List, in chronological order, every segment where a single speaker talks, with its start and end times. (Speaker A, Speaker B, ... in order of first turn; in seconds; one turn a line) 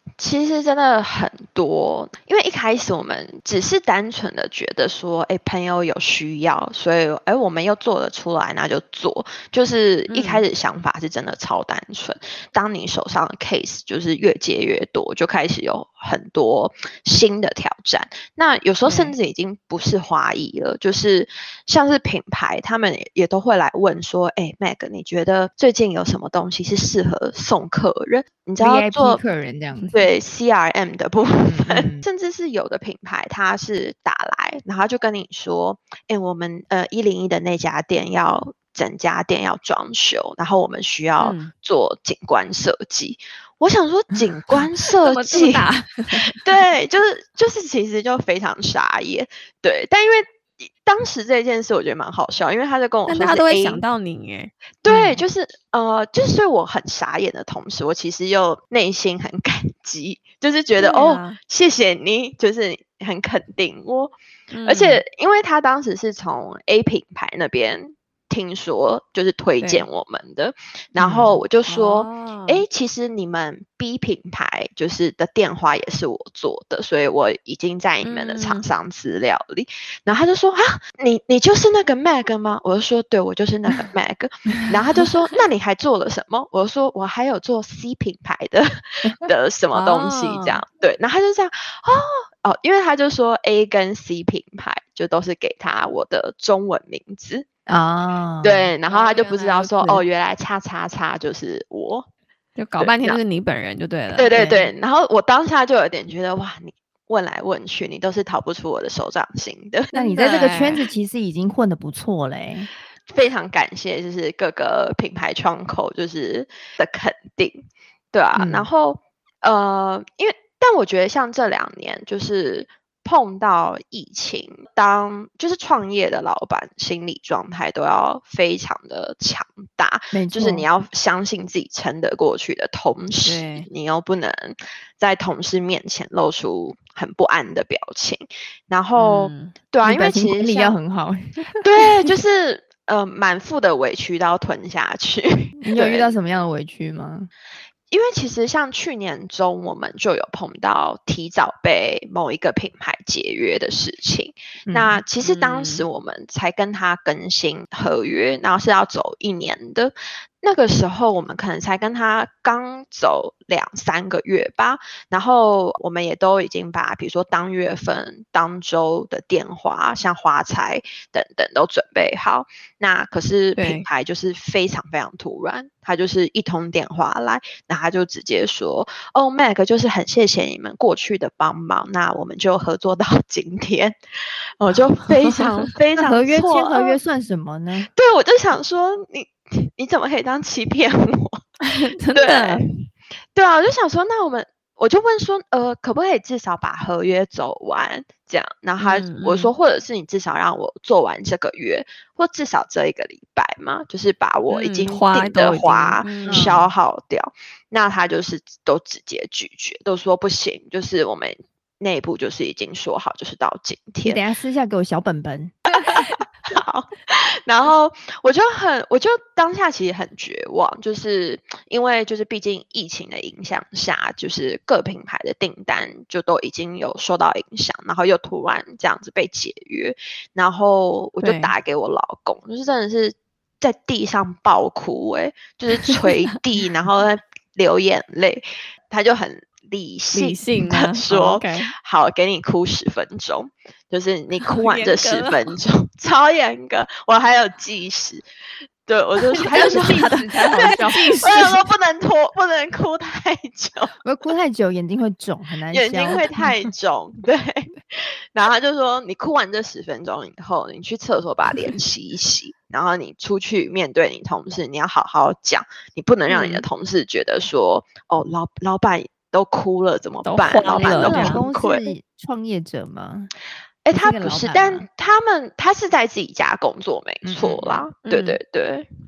Speaker A: 0.2-29.2
Speaker B: 10.1-10.4
Speaker B: 18.9-19.1
Speaker C: 28.6-29.9
Speaker A: 29.9-53.8
Speaker C: 31.4-32.1
Speaker B: 41.2-41.5
Speaker B: 45.0-46.4
Speaker B: 53.1-54.5
Speaker A: 54.8-64.2
Speaker C: 54.9-55.2
Speaker B: 60.8-61.4
Speaker B: 64.5-65.0
Speaker A: 64.7-97.5
Speaker C: 71.0-71.4
Speaker B: 71.7-72.6
Speaker B: 78.0-78.7
Speaker C: 89.0-89.3
Speaker B: 89.7-90.6
Speaker C: 97.7-98.7
Speaker A: 98.4-102.1
Speaker B: 98.9-100.0
Speaker B: 102.6-104.3
Speaker A: 102.8-103.2
Speaker A: 104.1-109.9
Speaker C: 104.3-104.7
Speaker B: 109.9-110.9
Speaker C: 109.9-112.7
Speaker A: 113.1-140.8
Speaker C: 118.4-118.7
Speaker C: 130.1-130.7
Speaker B: 133.2-133.7
Speaker B: 139.0-139.6
Speaker C: 139.8-141.6
Speaker A: 141.6-146.2
Speaker C: 145.6-147.3
Speaker A: 147.9-184.0
Speaker C: 154.7-155.0
Speaker B: 155.2-155.8
Speaker B: 173.6-173.9
Speaker A: 184.6-187.0
Speaker C: 186.0-187.9
Speaker A: 187.9-191.5
Speaker B: 191.7-192.6
Speaker A: 192.1-214.2
Speaker B: 198.8-199.5
Speaker B: 204.5-206.5
Speaker C: 206.3-206.7
Speaker C: 214.0-216.1
Speaker A: 216.5-248.2
Speaker B: 231.2-231.5
Speaker B: 240.1-241.7
Speaker B: 244.5-245.5
Speaker A: 248.9-253.9
Speaker C: 249.3-251.5
Speaker B: 249.3-251.7
Speaker C: 254.0-256.2
Speaker A: 255.7-271.8
Speaker B: 266.3-266.6
Speaker B: 270.2-271.4
Speaker C: 270.7-273.3
Speaker A: 273.8-278.9
Speaker C: 273.9-274.9
Speaker C: 277.2-277.9
Speaker B: 278.1-278.4